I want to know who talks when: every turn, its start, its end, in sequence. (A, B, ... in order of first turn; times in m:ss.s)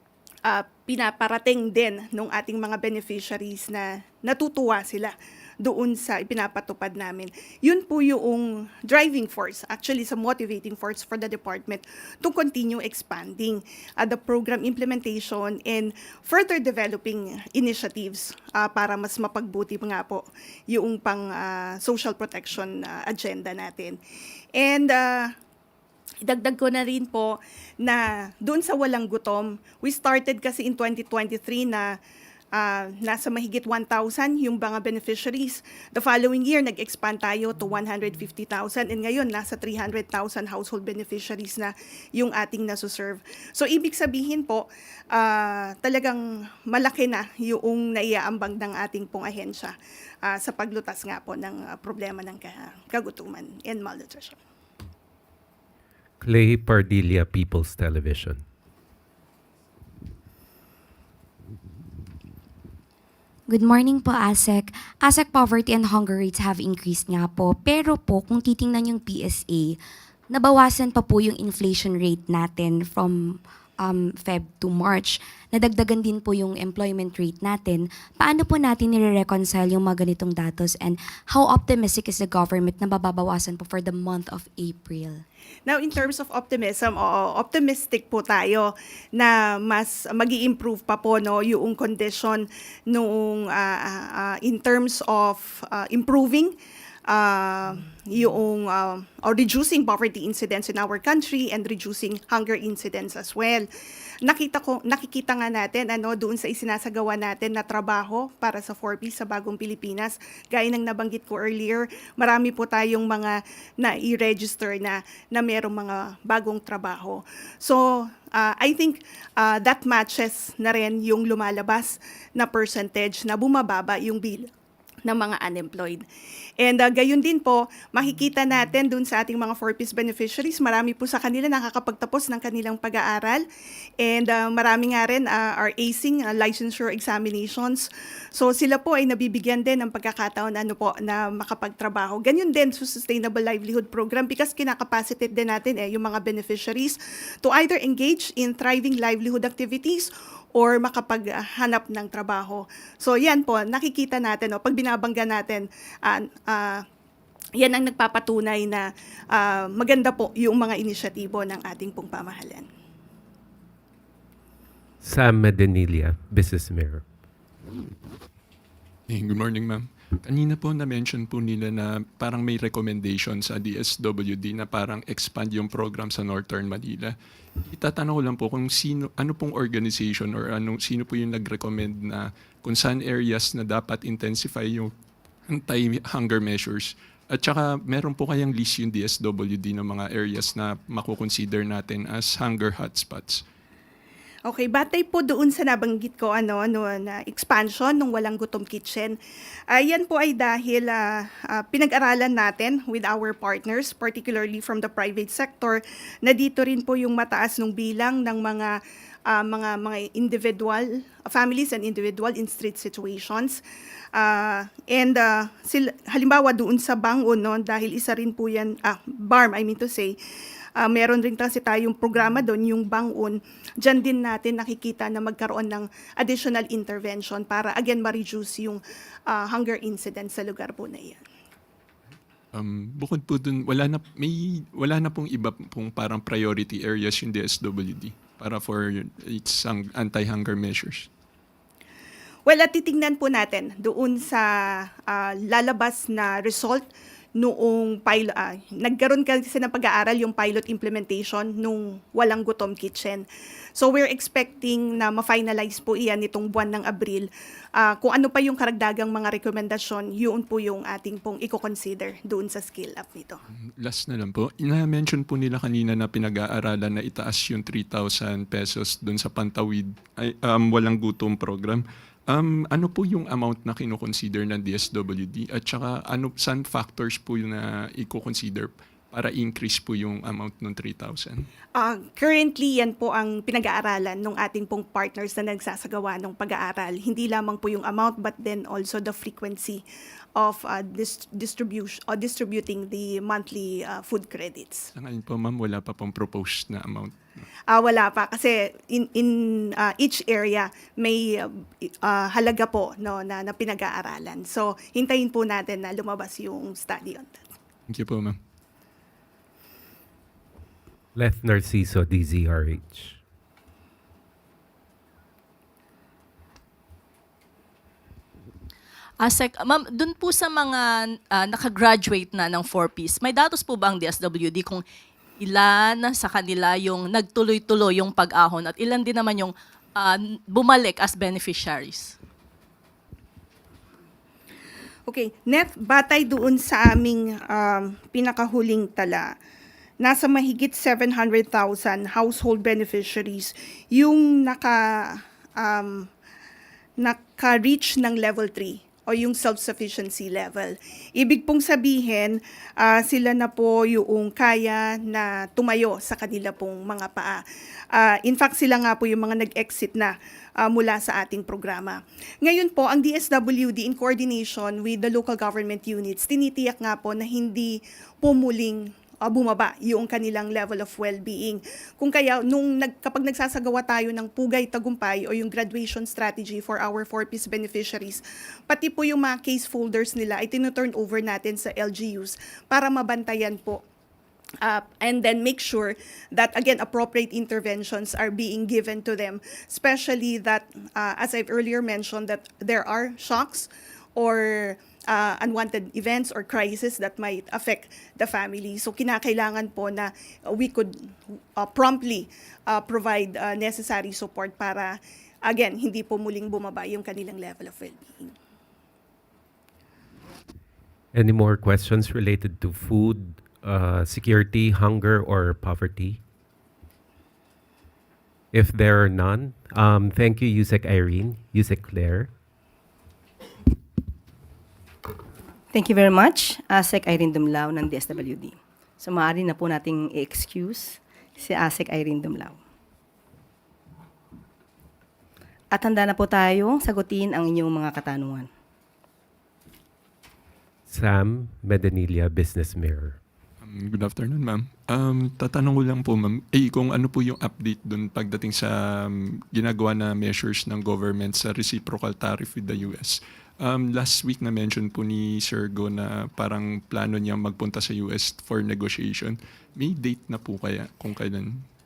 0:00.4-0:24.0 A
0:24.6-0:25.3 A
0:26.2-0:32.0 A
0:32.5-0:54.4 A
0:56.2-0:58.4 B
1:03.5-1:25.2 C
1:25.7-1:36.6 A
1:37.1-1:43.7 A
1:44.2-2:04.5 A
2:05.0-2:06.0 A
2:06.6-2:13.4 A
2:14.0-2:36.8 A
2:37.6-2:42.7 A
2:45.0-2:47.0 B
2:49.1-3:04.9 D
3:05.5-3:13.4 D
3:14.5-3:19.2 A
3:19.7-3:28.7 A
3:29.3-3:33.6 A
3:34.1-3:40.2 A
3:40.8-3:51.2 A
3:52.5-4:01.1 D
4:02.4-4:06.8 A
4:07.4-4:13.2 A
4:13.8-4:23.4 A
4:23.5-4:41.5 D
4:41.7-4:49.8 A
4:50.4-4:54.9 A
4:54.9-4:57.2 D
4:57.7-5:07.4 A
5:07.9-5:08.4 D
5:11.2-5:13.2 B
5:19.2-5:24.8 E
5:25.4-5:32.1 E
5:35.1-5:39.3 A
5:40.0-5:46.1 A
5:47.0-5:57.4 A
5:57.9-6:23.8 A
6:24.6-6:48.4 A
6:51.1-6:56.2 B
6:58.5-7:02.3 B
7:05.7-7:12.6 F
7:15.7-7:18.5 F
7:20.9-7:23.2 B
7:23.6-7:41.6 D